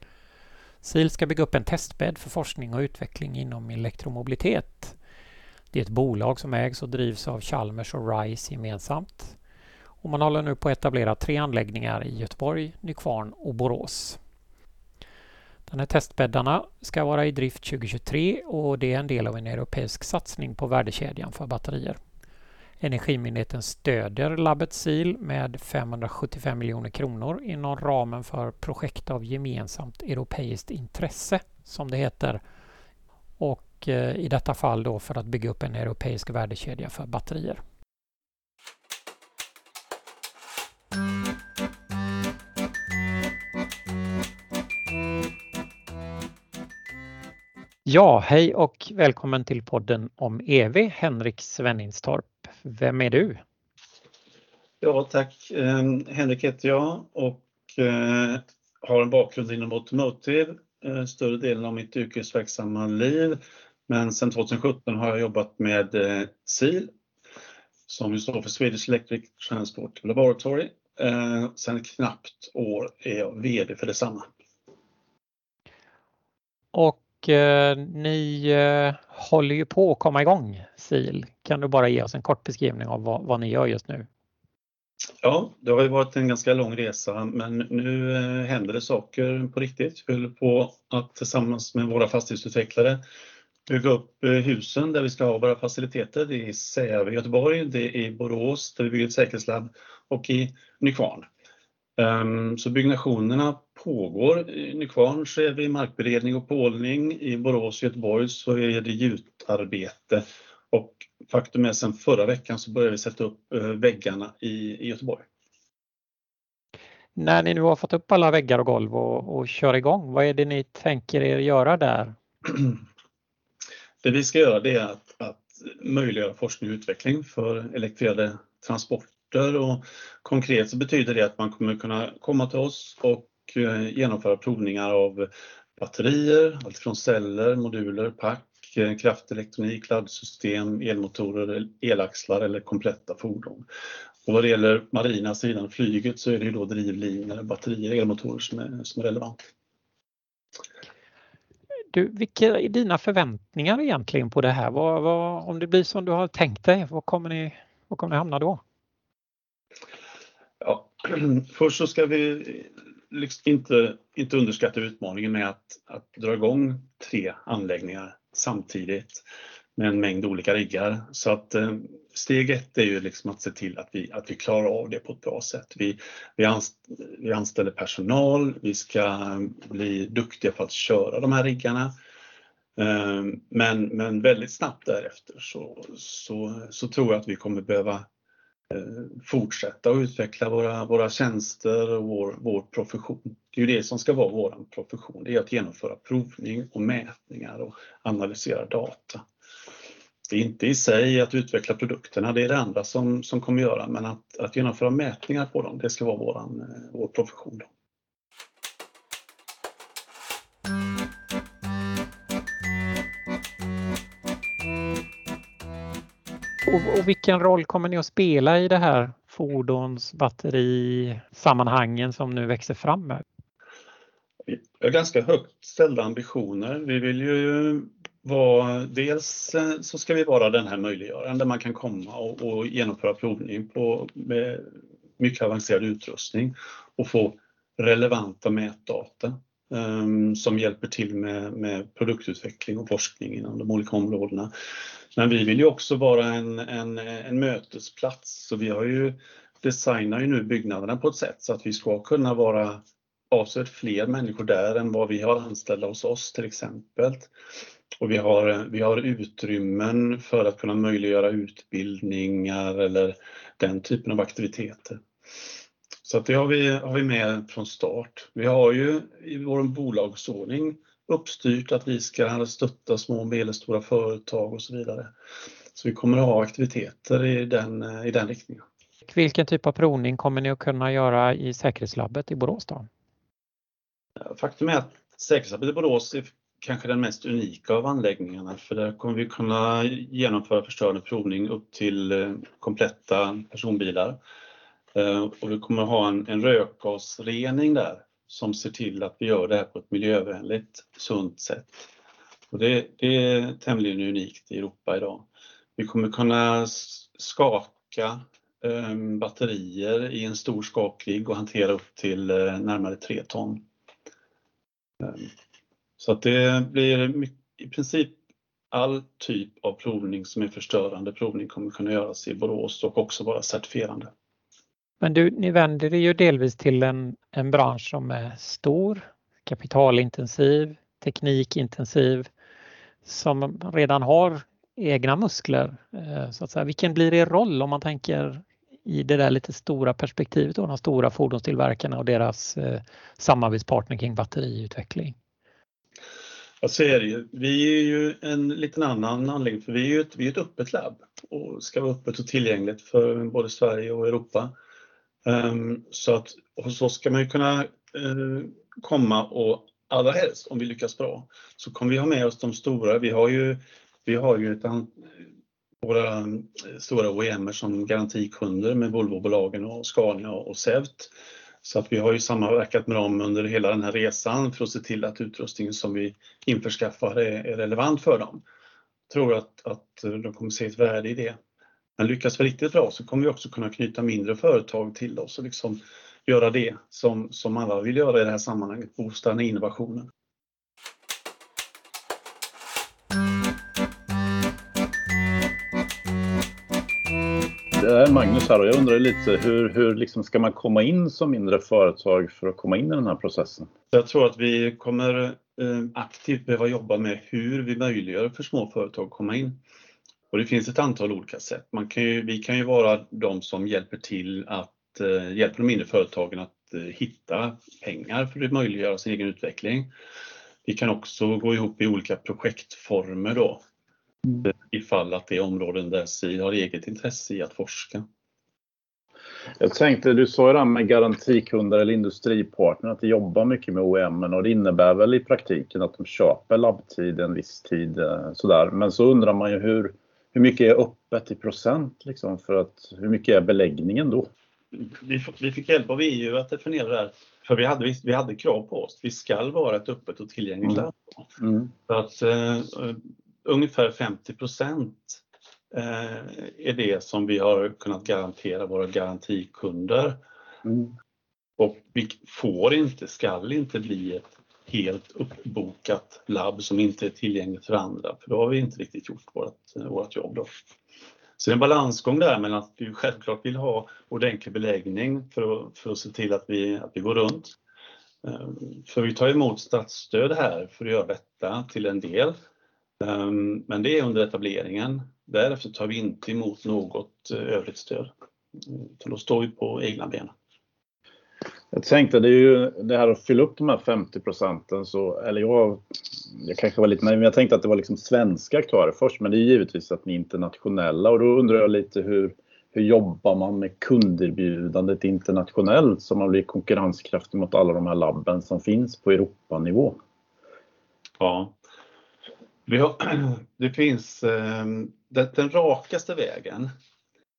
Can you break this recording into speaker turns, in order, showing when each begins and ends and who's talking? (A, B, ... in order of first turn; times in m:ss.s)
0:00.8-0:05.0 A
0:05.7-0:09.4 A
0:10.0-0:14.2 A
0:15.7-0:22.0 A
0:22.8-0:32.4 A
0:33.4-0:37.6 A
0:47.8-0:53.4 A
0:54.8-1:06.9 B
1:07.9-1:14.3 B
1:16.7-1:24.1 A
1:25.2-1:33.0 B
1:33.7-1:41.3 B
1:42.0-1:55.2 B
1:57.2-2:02.1 A
2:04.0-2:23.6 B
2:24.2-2:29.4 B
2:31.9-2:38.6 A
2:40.6-2:49.2 B
2:49.8-3:01.9 B
3:02.8-3:08.1 B
3:08.7-3:19.2 B
3:20.3-3:27.7 B
3:36.7-3:43.2 A
3:44.5-4:04.5 B
4:05.1-4:17.3 B
4:18.0-4:25.0 B
4:26.0-4:35.1 B
4:35.7-4:38.6 B
4:39.1-4:42.9 A
4:44.2-4:54.2 B
4:54.9-5:01.9 B
5:02.5-5:13.6 B
5:15.0-5:15.3 B
5:16.0-5:18.2 B
5:18.7-5:24.1 B
5:25.0-5:32.3 A
5:33.0-5:45.2 A
5:46.6-5:54.5 B
5:55.2-6:05.0 B
6:05.8-6:18.4 B
6:19.1-6:21.4 B
6:22.0-6:30.1 B
6:37.8-6:43.7 C
6:43.9-6:49.6 B
6:50.3-6:59.9 B
7:00.6-7:03.6 B
7:04.4-7:08.0 B
7:09.6-7:24.3 C
7:24.7-7:31.3 B
7:31.4-7:31.7 C
7:31.9-7:40.2 B
7:40.6-7:40.9 C
7:41.6-7:50.5 B
7:51.4-7:57.6 B
7:58.2-8:02.3 B
8:03.0-8:08.1 B
8:08.6-8:10.3 B
8:11.7-8:30.0 C
8:31.2-8:31.6 B
8:32.7-8:36.7 B